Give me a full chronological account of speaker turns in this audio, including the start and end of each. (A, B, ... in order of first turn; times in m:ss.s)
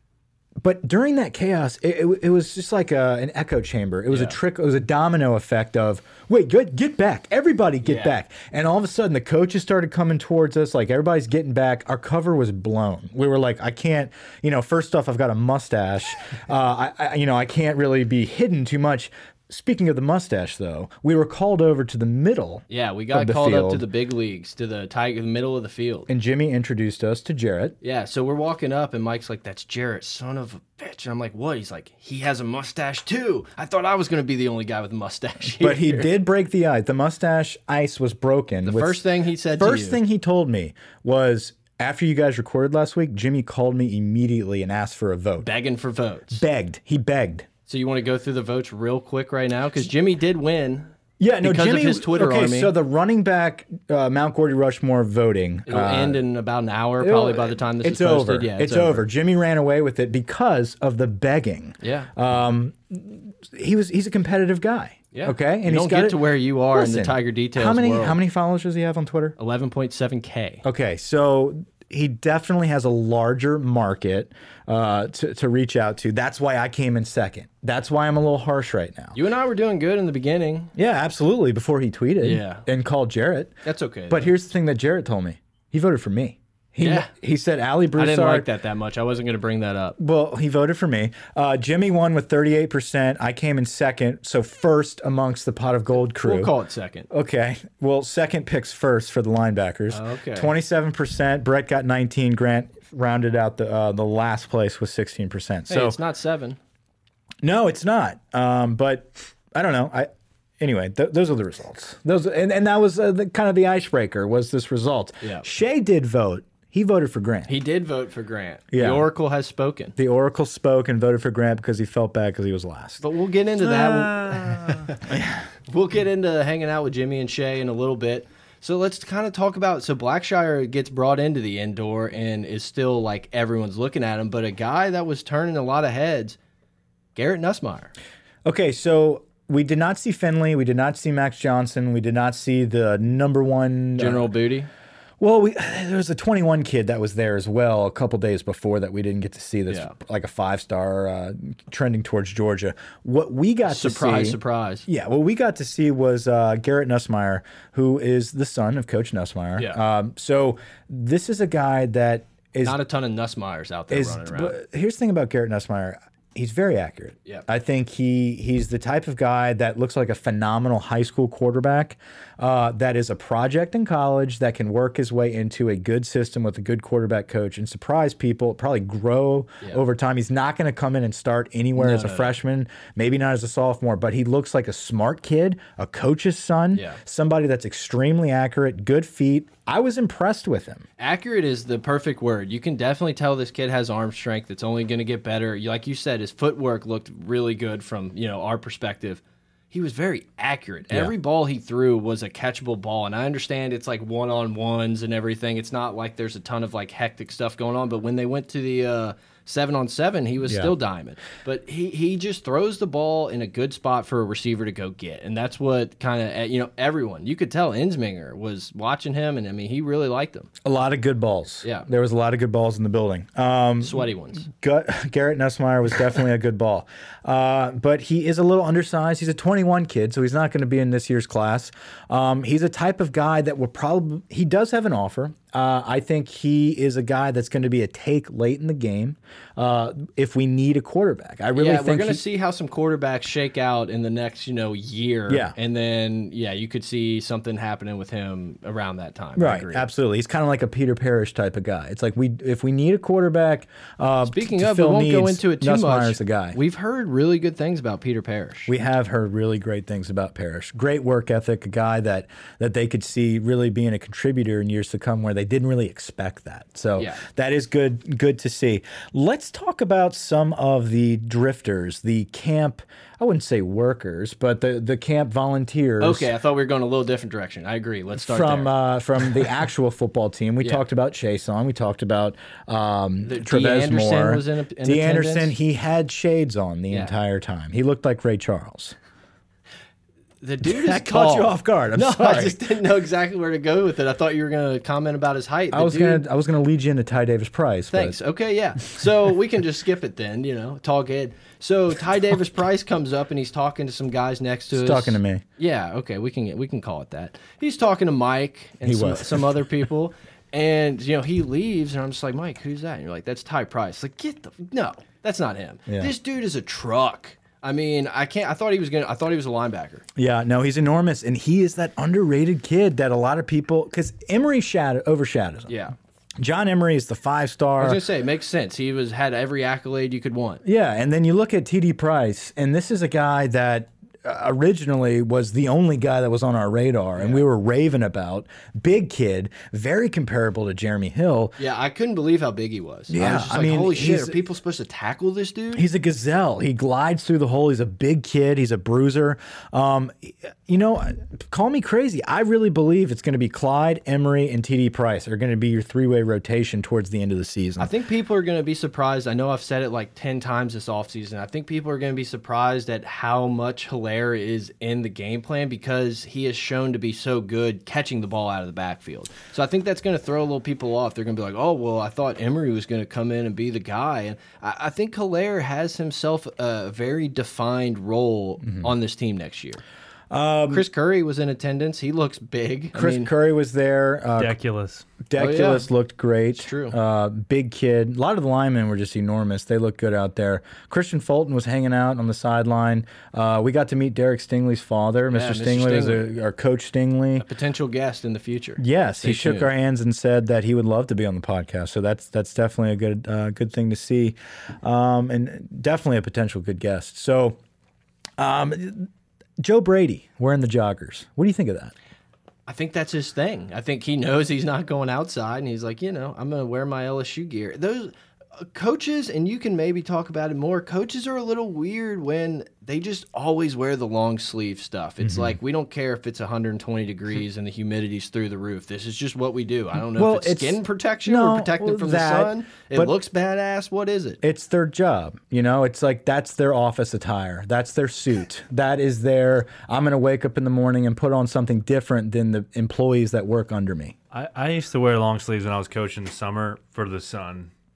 0:00.6-0:23.8 A
0:04.1-0:04.4 B
0:07.8-0:08.1 B
0:22.7-0:26.1 B
0:26.1-0:27.8 A
0:27.8-0:36.1 B
0:35.6-0:39.0 A
0:38.6-0:40.0 B
0:39.6-0:45.5 A
0:45.4-0:46.4 B
0:46.3-0:47.5 A
0:47.7-0:50.9 B
0:51.2-0:56.2 A
0:51.4-0:52.7 B
0:55.7-0:59.0 B
0:57.0-1:09.4 A
1:01.8-1:02.1 B
1:05.1-1:08.2 B
1:09.4-1:10.6 B
1:10.6-1:19.2 A
1:19.1-1:20.7 B
1:20.7-1:23.5 A
1:22.2-1:22.6 B
1:23.6-1:24.3 B
1:24.1-1:28.5 A
1:26.8-1:27.1 B
1:28.0-1:30.0 B
1:30.0-1:36.5 A
1:36.2-1:37.1 B
1:37.1-1:46.0 A
1:39.9-1:40.5 B
1:45.7-1:46.6 B
1:47.4-1:57.5 A
1:57.5-1:59.9 B
1:58.7-1:59.0 A
2:00.0-2:03.0 A
2:03.0-2:05.1 B
2:03.6-2:05.4 A
2:05.7-2:16.4 B
2:17.1-2:17.9 B
2:18.4-2:24.3 A
2:24.0-2:24.7 B
2:25.2-2:42.8 A
2:33.7-2:34.8 B
2:42.6-2:44.6 B
2:43.9-3:10.8 A
3:01.8-3:02.3 B
3:11.0-3:40.5 B
3:30.5-3:30.7 A
3:40.6-4:02.2 A
3:43.8-3:44.4 B
4:01.6-4:09.8 B
4:05.3-4:05.5 A
4:09.4-4:16.6 A
4:14.3-4:18.7 B
4:18.7-4:36.3 A
4:36.0-4:38.7 B
4:38.2-4:48.9 A
4:43.2-4:45.5 B
4:50.4-4:56.2 B
4:50.6-4:52.6 A
4:55.7-4:58.2 A
4:57.9-5:20.0 B
5:04.7-5:05.4 A
5:08.8-5:09.5 A
5:20.2-5:25.7 A
5:26.4-5:28.0 A
5:27.8-5:30.6 B
5:30.6-5:41.6 A
5:37.2-5:37.4 B
5:41.6-5:45.8 B
5:43.1-5:44.4 A
5:45.7-5:57.9 A
5:57.8-6:19.8 B
6:20.3-6:20.8 A
6:20.7-6:23.3 B
6:22.9-6:24.6 A
6:24.4-6:25.1 C
6:25.2-6:37.4 A
6:25.4-6:25.9 B
6:26.6-6:27.0 B
6:35.3-6:36.2 B
6:37.4-6:39.7 B
6:38.8-6:47.6 A
6:48.4-6:49.1 A
6:49.6-6:51.9 A
6:52.7-7:14.4 B
7:05.2-7:05.6 A
7:10.1-7:13.1 A
7:14.4-7:24.1 A
7:24.3-7:27.7 C